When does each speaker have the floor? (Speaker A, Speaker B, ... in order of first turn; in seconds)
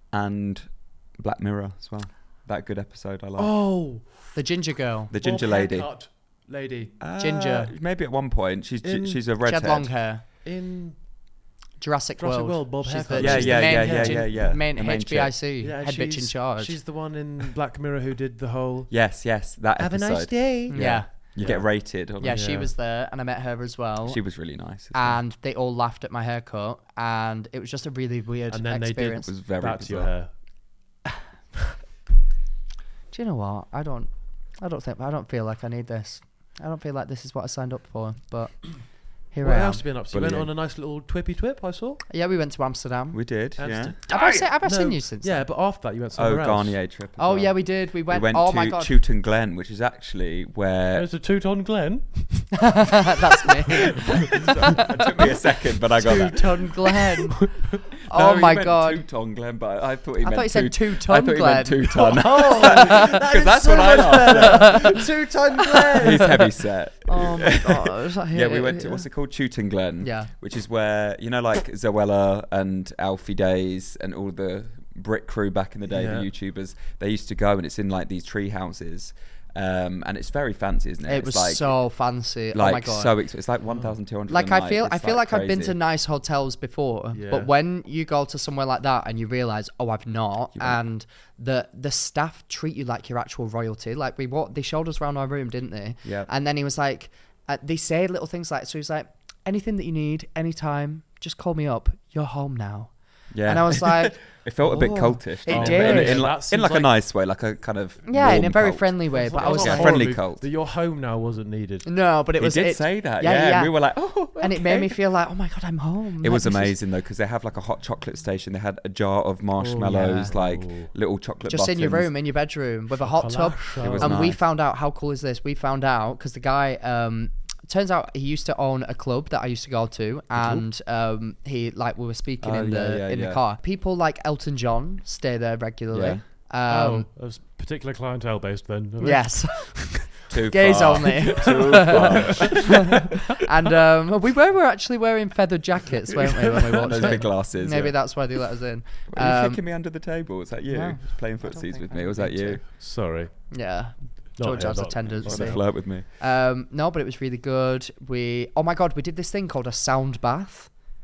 Speaker A: 0.1-3.5, 5.1-5.9, 7.0-9.9, 13.1-15.3, 18.9-22.4, 24.1-25.2, 29.2-30.1, 40.1-40.5, 43.1-44.0, 46.1-51.1, 54.3-56.7, 58.0-65.0, 65.9-81.8, 82.5-85.8, 90.5-90.8, 103.3-110.5, 112.4-115.0, 116.2-122.1, 123.8-124.4, 132.4-133.4, 135.9-136.2, 140.3-143.1, 146.8-148.0, 149.1-152.6, 155.2-156.1
Speaker B: 3.4-4.4, 5.2-7.0, 8.8-9.2, 10.4-11.0, 12.2-14.6, 15.6-18.9, 19.8-21.7, 22.2-22.7, 28.5-30.3, 39.4-42.0, 43.6-46.8, 50.9-52.6, 57.4-57.8, 62.0-66.5, 75.9-76.3, 83.7-83.9, 87.1-87.5, 105.4-106.9, 109.1-111.9, 119.6-120.9, 123.0-124.2, 130.3-130.7, 136.7-139.8, 141.3-142.9, 146.6-147.2, 152.8-153.3, 154.4-155.6
Speaker C: 4.3-5.1, 7.2-7.7, 9.4-10.2, 11.8-16.8, 20.7-21.1, 22.2-24.2, 24.9-29.3, 33.1-38.7, 39.3-39.8, 42.1-43.2, 44.1-45.4, 47.2-48.9, 52.5-54.9, 56.0-57.5, 58.1-59.0, 60.2-63.0, 64.3-65.0, 65.9-66.2, 67.1-69.0, 70.0-70.3, 81.1-83.1, 84.3-102.9, 103.4-106.3, 108.1-110.1, 111.9-113.8, 114.4-116.8, 119.9-120.3, 121.5-137.1, 139.0-149.6, 150.7-152.8, 153.5-160.7